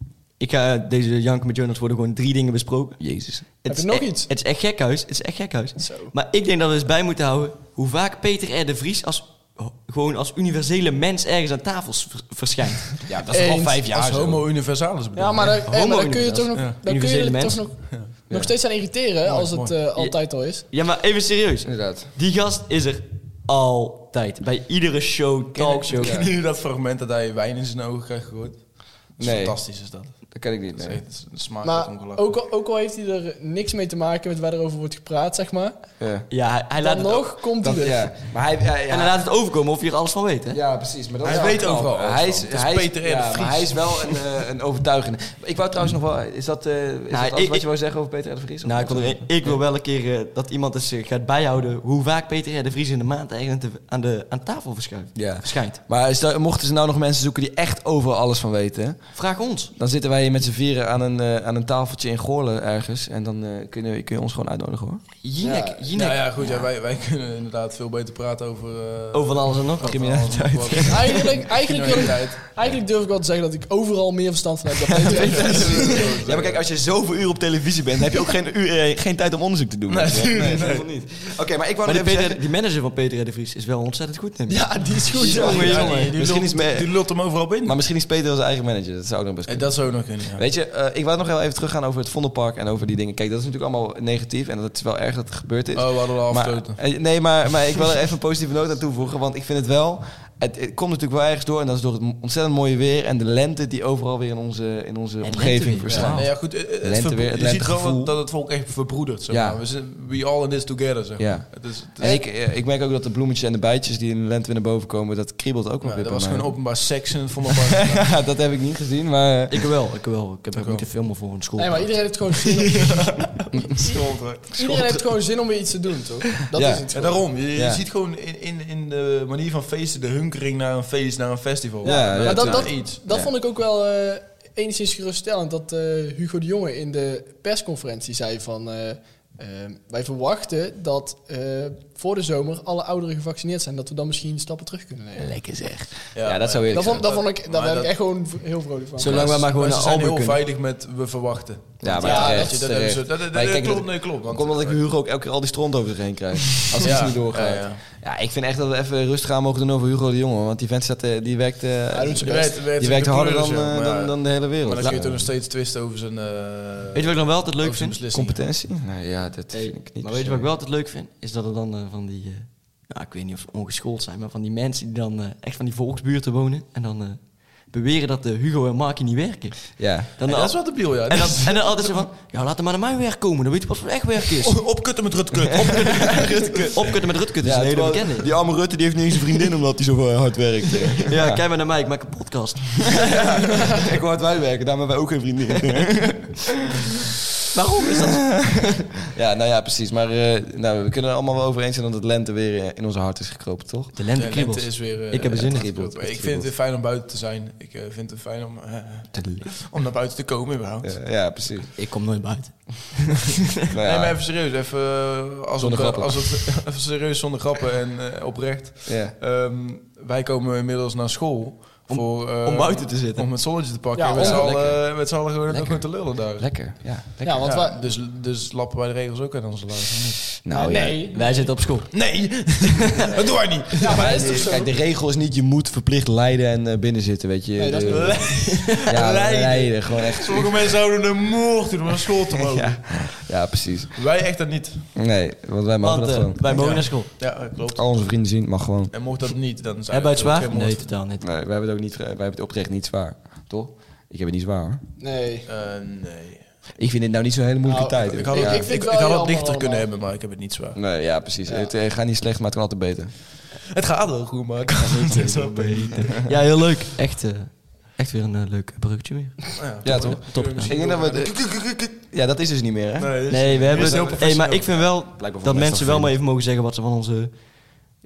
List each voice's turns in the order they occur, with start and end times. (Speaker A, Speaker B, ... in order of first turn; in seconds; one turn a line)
Speaker A: 0.4-3.0
Speaker B: 3.0-3.5
Speaker A: 3.6-13.0
Speaker C: 3.7-4.3
Speaker C: 5.8-6.1
Speaker B: 13.1-14.4
Speaker C: 13.3-13.8
Speaker D: 13.4-15.6
Speaker C: 15.2-20.6
Speaker A: 15.7-17.8
Speaker D: 19.2-19.8
Speaker A: 20.0-26.2
Speaker B: 21.6-22.1
Speaker D: 25.5-30.2
Speaker B: 26.0-26.3
Speaker B: 29.2-29.6
Speaker B: 30.3-31.0
Speaker D: 30.8-32.3
Speaker C: 31.6-35.8
Speaker B: 36.0-36.3
Speaker A: 36.3-37.5
Speaker C: 36.8-38.1
Speaker B: 37.6-39.2
Speaker A: 38.9-40.6
Speaker B: 40.5-49.5
Speaker D: 41.2-44.2
Speaker A: 47.1-47.7
Speaker A: 48.6-55.8
Speaker B: 55.1-59.1
Speaker A: 59.1-59.7
Speaker B: 59.8-65.0
Speaker A: 65.2-66.7
Speaker C: 65.4-65.8
Speaker D: 66.0-72.6
Speaker A: 69.1-71.3
Speaker B: 69.8-70.8
Speaker C: 70.9-76.1
Speaker B: 75.0-82.4
Speaker D: 75.1-76.6
Speaker D: 79.9-80.9
Speaker A: 81.8-86.1
Speaker C: 84.5-86.0
Speaker B: 85.2-86.9
Speaker D: 85.2-87.8
Speaker B: 87.6-108.1
Speaker D: 89.5-90.4
Speaker D: 95.8-96.8
Speaker A: 105.2-106.3
Speaker D: 106.1-112.2
Speaker B: 109.3-109.6
Speaker B: 111.2-116.5
Speaker D: 115.8-118.1
Speaker B: 117.7-119.6
Speaker A: 119.5-122.0
Speaker D: 120.6-120.9
Speaker C: 121.6-123.0
Speaker D: 122.7-124.5
Speaker C: 124.5-127.3
Speaker B: 126.5-126.8
Speaker D: 126.9-133.0
Speaker B: 127.5-127.8
Speaker C: 131.8-145.3
Speaker B: 131.8-133.3
Speaker A: 145.2-145.9
Speaker D: 146.1-147.9
Speaker B: 146.2-147.2
Speaker C: 146.7-149.3
Speaker A: 149.0-150.4
Speaker D: 149.0-154.8
Speaker B: 151.8-165.3
Speaker C: 152.0-152.6
Speaker D: 156.8-157.8
Speaker C: 161.9-162.6
Speaker D: 162.2-168.4
Speaker A: 166.9-168.0
Speaker B: 168.1-170.5
Speaker A: 169.5-184.6
Speaker B: 179.8-180.1
Speaker D: 180.3-181.9
Speaker D: 184.4-186.8
Speaker A: 186.0-188.3
Speaker B: 186.2-186.7
Speaker B: 187.4-191.4
Speaker A: 191.1-193.2
Speaker B: 192.9-196.5
Speaker A: 197.5-198.9
Speaker B: 198.1-203.9
Speaker A: 203.9-205.8
Speaker D: 204.2-210.9
Speaker B: 205.2-206.5
Speaker A: 209.2-209.5
Speaker B: 210.8-211.7
Speaker A: 211.8-213.4
Speaker B: 213.7-214.2
Speaker D: 213.8-226.7
Speaker B: 215.6-216.4
Speaker B: 218.9-219.2
Speaker A: 221.9-223.5
Speaker C: 223.9-224.5
Speaker B: 224.2-224.8
Speaker B: 225.5-227.6
Speaker C: 227.2-227.8
Speaker D: 227.4-230.4
Speaker B: 230.4-231.1
Speaker C: 230.5-231.4
Speaker A: 231.1-232.0
Speaker D: 231.9-234.4
Speaker C: 233.8-234.7
Speaker B: 233.8-240.8
Speaker C: 237.6-238.3
Speaker D: 237.9-243.1
Speaker A: 238.6-239.0
Speaker B: 242.4-244.0
Speaker D: 243.9-244.9
Speaker B: 244.9-248.9
Speaker A: 245.8-247.1
Speaker D: 246.5-247.9
Speaker D: 248.9-250.9
Speaker A: 249.9-251.2
Speaker B: 251.2-254.8
Speaker C: 255.0-255.5
Speaker D: 255.5-256.5
Speaker B: 256.8-258.7
Speaker C: 257.6-259.9
Speaker D: 258.1-260.8
Speaker B: 260.8-263.1
Speaker C: 261.5-261.7
Speaker D: 263.7-266.2
Speaker A: 264.8-270.8
Speaker D: 269.6-271.9
Speaker B: 269.8-274.2
Speaker D: 273.0-274.8
Speaker A: 273.3-277.8
Speaker B: 274.9-276.1